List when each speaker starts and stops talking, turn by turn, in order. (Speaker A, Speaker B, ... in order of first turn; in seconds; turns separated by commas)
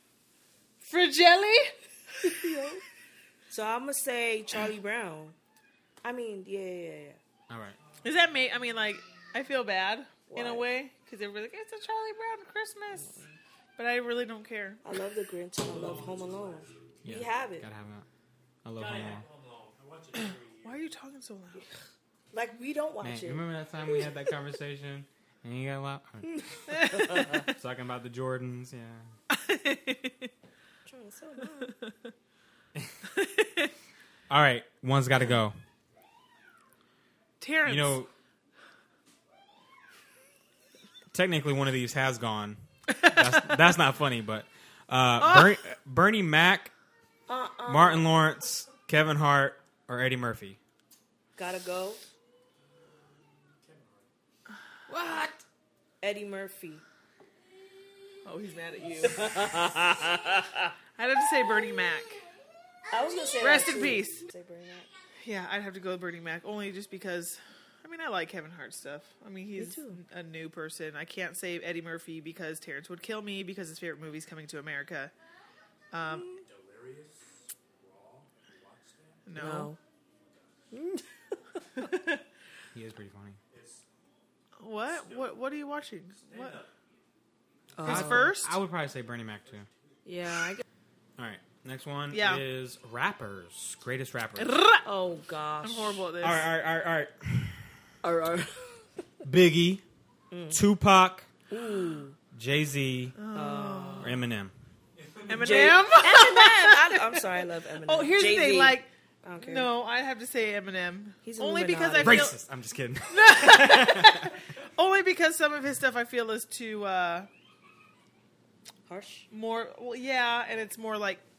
Speaker A: 0.8-1.7, Speaker B: 2.2-2.8, Speaker B: 3.5-5.3, Speaker B: 6.0-7.2, Speaker C: 7.5-7.8, Speaker D: 8.0-8.4, Speaker A: 8.0-13.2, Speaker B: 10.3-10.7, Speaker A: 13.8-14.8, Speaker B: 14.8-17.7, Speaker D: 15.6-16.8, Speaker C: 17.0-18.1, Speaker C: 18.6-19.3, Speaker D: 18.8-20.9, Speaker A: 20.6-21.6, Speaker B: 22.3-23.4, Speaker C: 23.0-29.1, Speaker A: 26.7-27.4, Speaker A: 29.3-30.3, Speaker B: 30.9-31.8, Speaker A: 31.6-31.9, Speaker A: 33.0-33.7, Speaker C: 34.3-35.5, Speaker A: 37.4-38.0, Speaker C: 37.6-38.1, Speaker C: 41.1-46.7, Speaker A: 45.2-45.5, Speaker B: 47.3-48.1, Speaker C: 47.7-50.6, Speaker B: 51.4-52.0, Speaker D: 52.6-54.1, Speaker C: 54.9-55.3, Speaker B: 56.0-56.8, Speaker A: 58.2-59.3, Speaker B: 59.2-60.6, Speaker A: 61.0-62.2, Speaker B: 62.9-64.9, Speaker A: 63.4-64.2, Speaker A: 65.2-75.1, Speaker B: 69.5-70.0, Speaker A: 75.9-76.4, Speaker D: 76.4-79.3, Speaker A: 79.2-79.7, Speaker B: 79.3-79.8, Speaker D: 79.9-80.7, Speaker B: 80.7-81.0, Speaker A: 81.8-82.2, Speaker C: 82.7-83.4, Speaker D: 83.5-83.8, Speaker A: 84.6-86.6, Speaker D: 84.9-85.4, Speaker D: 86.2-86.9, Speaker B: 87.7-88.3, Speaker A: 87.8-88.6, Speaker C: 87.8-89.7, Speaker D: 89.4-89.8, Speaker B: 90.0-90.6, Speaker C: 91.2-94.6, Speaker A: 92.1-92.4, Speaker A: 94.4-94.8, Speaker B: 94.8-96.0, Speaker A: 95.6-96.5, Speaker C: 96.2-97.8, Speaker B: 98.0-98.9, Speaker C: 99.2-99.8, Speaker B: 100.3-100.6, Speaker C: 100.5-101.3, Speaker B: 101.5-102.2, Speaker C: 102.3-103.2, Speaker A: 103.2-104.2, Speaker B: 103.3-104.2, Speaker C: 104.0-104.5, Speaker D: 104.9-105.9, Speaker A: 105.3-112.4, Speaker B: 105.4-109.7, Speaker B: 111.2-112.3, Speaker C: 112.0-114.4, Speaker A: 113.1-117.3, Speaker B: 118.9-119.3, Speaker A: 119.3-121.2